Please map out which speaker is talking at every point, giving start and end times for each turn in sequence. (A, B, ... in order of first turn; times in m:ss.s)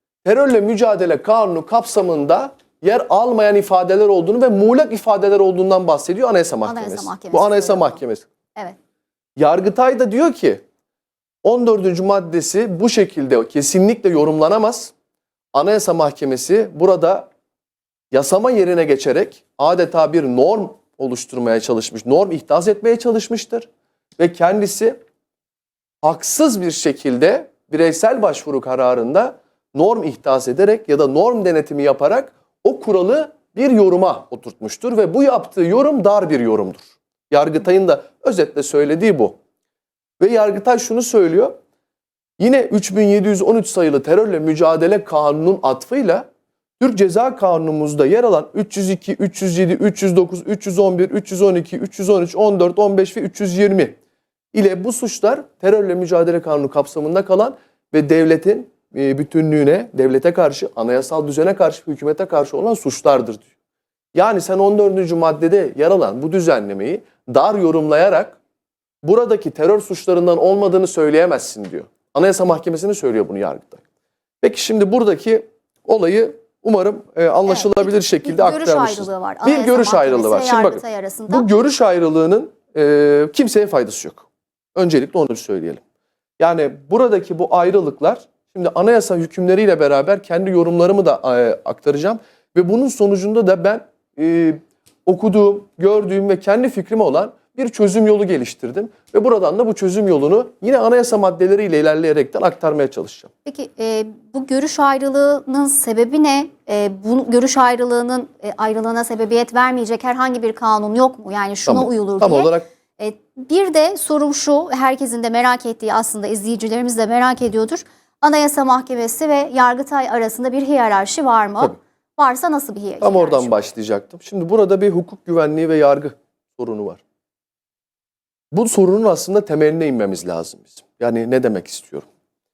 0:00.2-0:08.3 A
0:06.7-0:08.0 B
0:09.4-0:10.6 A
0:11.4-0:14.9 A
0:15.5-0:17.3 A
0:18.1-0:25.0 A
0:26.0-0:39.4 A
0:40.2-0:41.5 A
0:42.4-0:46.3 A
0:46.8-0:54.0 A
0:54.5-1:03.5 A
1:04.1-1:08.4 A
1:09.0-1:13.8 A
1:14.4-1:25.8 A
1:17.5-1:21.5 B
1:26.4-1:43.3 A
1:43.5-2:03.5 B
1:51.7-1:52.7 A
2:03.0-2:07.0 A
2:08.5-2:12.1 A